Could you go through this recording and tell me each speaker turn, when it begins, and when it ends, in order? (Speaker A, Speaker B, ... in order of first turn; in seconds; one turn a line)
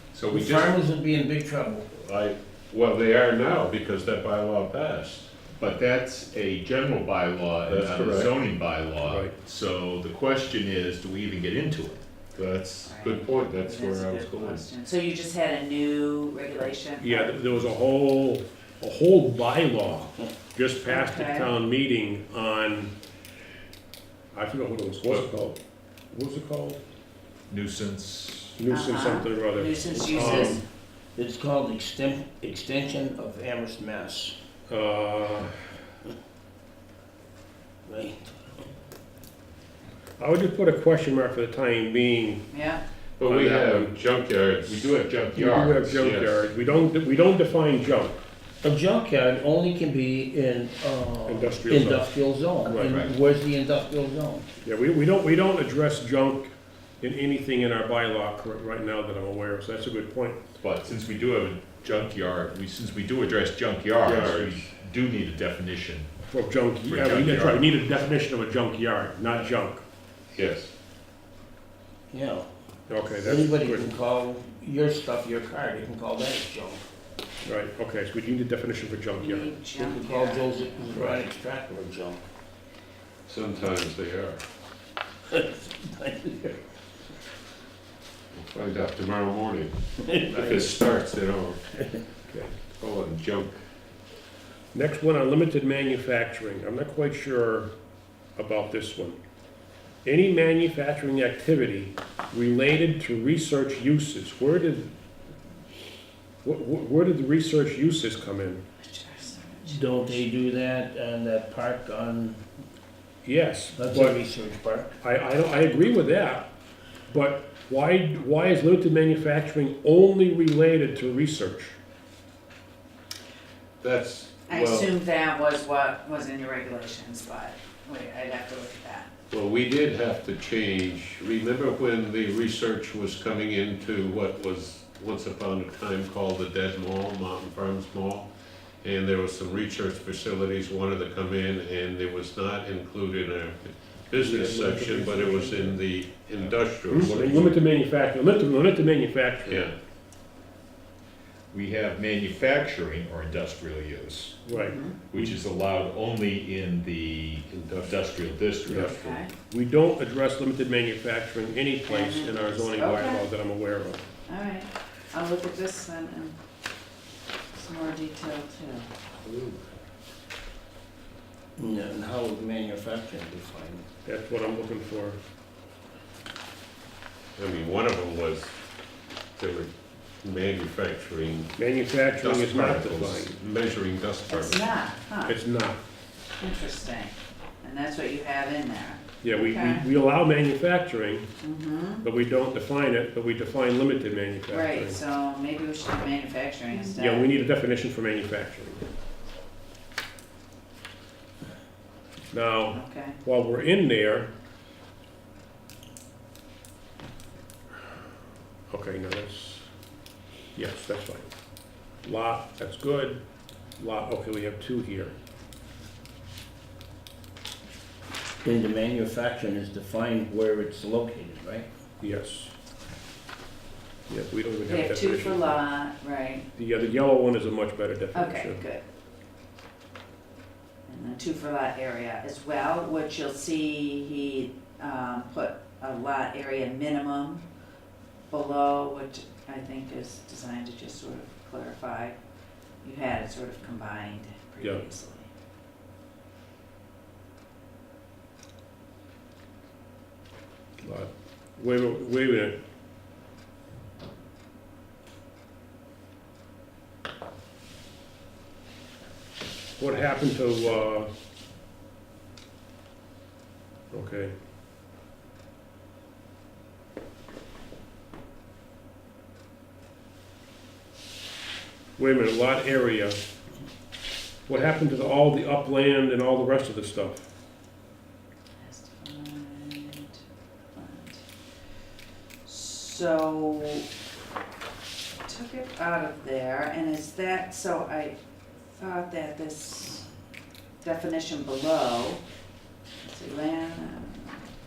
Speaker A: 0.1-0.7
Speaker B: 0.3-1.9
Speaker C: 1.9-5.3
Speaker A: 5.6-12.0
Speaker C: 7.7-8.3
Speaker D: 9.0-9.3
Speaker C: 12.3-14.7
Speaker E: 12.8-17.4
Speaker D: 17.0-22.9
Speaker E: 20.9-21.5
Speaker D: 24.3-25.6
Speaker D: 26.1-26.8
Speaker A: 27.5-28.6
Speaker D: 28.6-30.6
Speaker E: 28.7-30.6
Speaker B: 29.8-30.6
Speaker B: 31.2-34.4
Speaker D: 34.7-35.6
Speaker B: 37.9-38.3
Speaker D: 40.2-42.5
Speaker E: 42.5-42.8
Speaker C: 43.2-44.9
Speaker D: 43.3-43.9
Speaker A: 44.7-46.0
Speaker D: 45.3-48.2
Speaker C: 46.0-46.4
Speaker B: 48.6-54.5
Speaker D: 51.3-52.1
Speaker D: 52.6-53.0
Speaker D: 54.6-60.4
Speaker A: 60.6-66.1
Speaker C: 64.0-64.7
Speaker D: 66.3-69.8
Speaker A: 66.8-67.6
Speaker C: 70.3-70.7
Speaker B: 72.1-72.5
Speaker D: 72.9-73.9
Speaker B: 73.2-76.9
Speaker D: 77.4-79.6
Speaker E: 79.2-81.1
Speaker B: 79.8-82.2
Speaker D: 81.0-81.2
Speaker C: 83.3-84.4
Speaker B: 85.3-86.7
Speaker C: 88.3-89.7
Speaker B: 90.0-90.8
Speaker C: 90.3-91.8
Speaker D: 92.3-92.6
Speaker C: 92.7-93.6
Speaker D: 94.7-97.7
Speaker D: 98.4-99.2
Speaker D: 100.0-105.0
Speaker D: 106.4-108.6
Speaker E: 108.8-110.2
Speaker B: 109.7-112.4
Speaker D: 113.2-114.2
Speaker B: 113.7-115.0
Speaker D: 115.0-116.5
Speaker D: 117.1-121.8
Speaker C: 123.8-125.0
Speaker E: 124.5-129.1
Speaker C: 129.3-138.3
Speaker C: 138.8-147.6
Speaker D: 144.2-145.8
Speaker D: 146.9-149.7
Speaker C: 149.4-149.7
Speaker A: 151.5-154.4
Speaker D: 154.5-155.3
Speaker E: 154.5-155.0
Speaker A: 155.1-159.2
Speaker C: 157.5-158.0
Speaker C: 158.8-159.0
Speaker E: 158.9-159.3
Speaker D: 159.5-164.0
Speaker E: 161.9-163.2
Speaker E: 164.3-166.4
Speaker E: 167.5-168.9
Speaker C: 169.3-169.6
Speaker B: 171.6-173.9
Speaker D: 174.1-175.2
Speaker C: 177.4-178.6
Speaker C: 179.4-179.7
Speaker C: 180.2-181.5
Speaker D: 181.6-183.4
Speaker C: 182.2-184.7
Speaker E: 184.3-185.4
Speaker D: 185.3-185.8
Speaker E: 186.4-189.9
Speaker D: 189.2-191.3
Speaker E: 191.4-192.1
Speaker D: 192.0-195.0
Speaker E: 194.5-197.3
Speaker D: 196.9-198.8
Speaker D: 202.3-204.3
Speaker E: 202.7-203.2
Speaker D: 208.7-209.7
Speaker D: 210.6-211.3
Speaker D: 212.0-213.2
Speaker D: 213.8-215.2
Speaker B: 218.4-221.7
Speaker D: 222.0-222.5
Speaker D: 224.1-225.6
Speaker E: 224.7-226.5
Speaker D: 226.6-228.6
Speaker E: 228.1-228.8
Speaker E: 230.9-237.4
Speaker E: 238.3-242.2
Speaker E: 242.8-245.3
Speaker D: 250.8-252.6
Speaker D: 259.8-261.1
Speaker D: 263.9-264.3
Speaker D: 272.0-273.2
Speaker D: 274.5-277.2
Speaker E: 278.6-280.1
Speaker E: 280.7-281.2
Speaker E: 282.4-283.9
Speaker E: 285.3-288.2
Speaker E: 288.8-290.1
Speaker E: 290.8-292.2
Speaker E: 293.0-294.5